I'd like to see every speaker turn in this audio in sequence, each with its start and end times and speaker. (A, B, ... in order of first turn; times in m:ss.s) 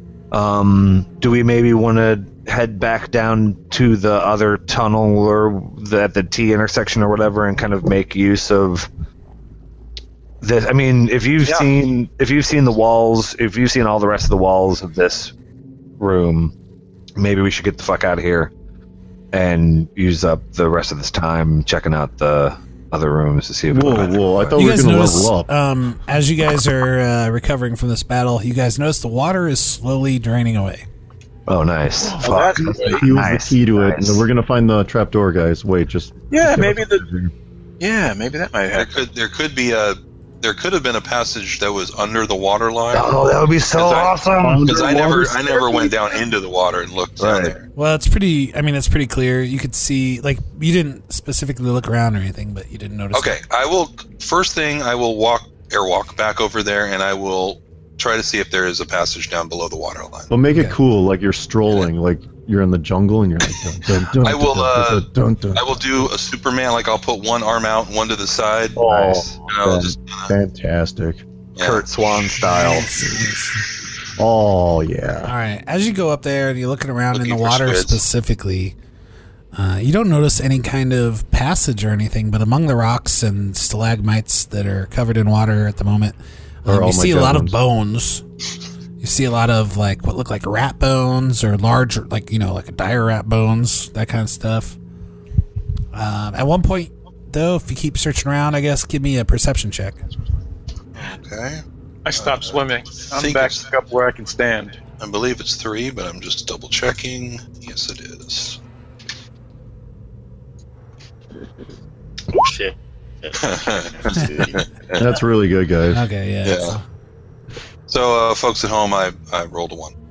0:00.3-0:08.9 A
0:10.4-0:15.3 A
0:16.0-0:16.5 A
0:17.2-0:18.5 A
0:19.3-0:24.3 A
0:23.7-0:25.5 B
0:24.5-0:30.8 C
0:31.5-0:34.2 A
0:32.2-0:33.1 D
0:32.6-0:37.3 B
0:36.3-0:37.0 D
0:37.8-0:38.9 D
0:38.7-0:47.6 E
0:42.9-0:44.7 A
0:44.4-0:45.9 B
0:47.2-0:47.5 A
0:47.8-0:53.4 C
0:53.1-1:00.3 E
1:00.3-1:05.8 B
1:00.5-1:00.8 C
1:04.2-1:08.8 E
1:08.8-1:11.2 B
1:08.8-1:09.4 A
1:09.5-1:10.3 E
1:11.6-1:12.3 E
1:11.6-1:12.9 A
1:12.4-1:13.6 C
1:14.2-1:15.3 B
1:15.2-1:18.7 C
1:17.1-1:18.0 E
1:19.5-1:28.2 C
1:26.6-1:27.6 B
1:29.0-1:34.8 C
1:35.9-1:40.0 C
1:41.0-1:41.6 E
1:42.0-1:44.8 D
1:42.2-1:43.6 E
1:45.0-1:48.6 E
1:52.4-1:52.7 D
1:53.4-1:55.0 E
1:55.0-1:56.0 B
1:55.9-1:56.8 C
1:56.4-1:56.8 E
1:57.9-1:59.9 E